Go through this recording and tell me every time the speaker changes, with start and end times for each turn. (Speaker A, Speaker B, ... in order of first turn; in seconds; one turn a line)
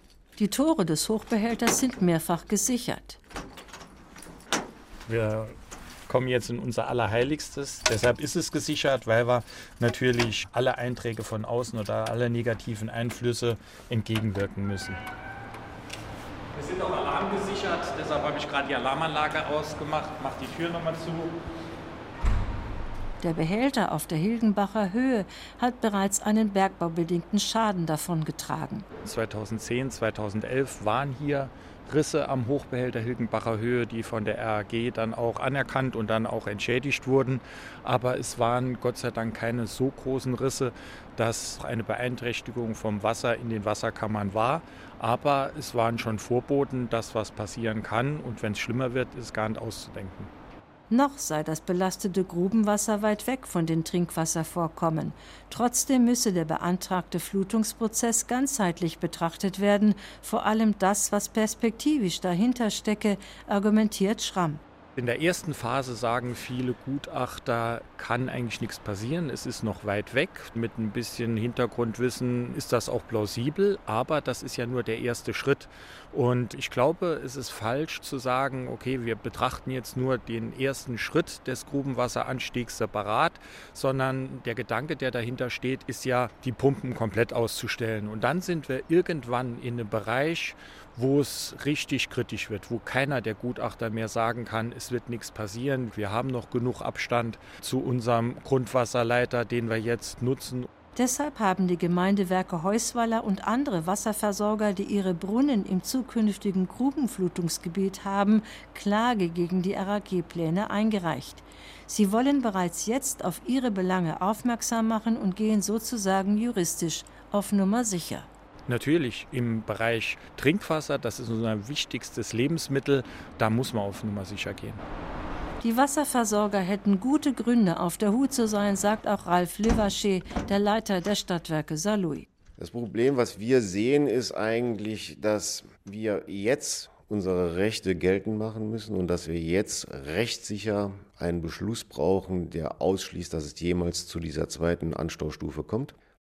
Speaker A: 0.4-3.2
Speaker B: 5.1-5.5
Speaker B: 6.1-15.0
Speaker B: 16.6-21.3
Speaker A: 23.2-28.9
Speaker B: 29.0-50.3
Speaker A: 50.9-64.6
Speaker B: 65.0-100.7
Speaker A: 101.0-118.3
Speaker B: 118.7-124.8
Speaker A: 125.6-132.3
Speaker C: 132.6-145.9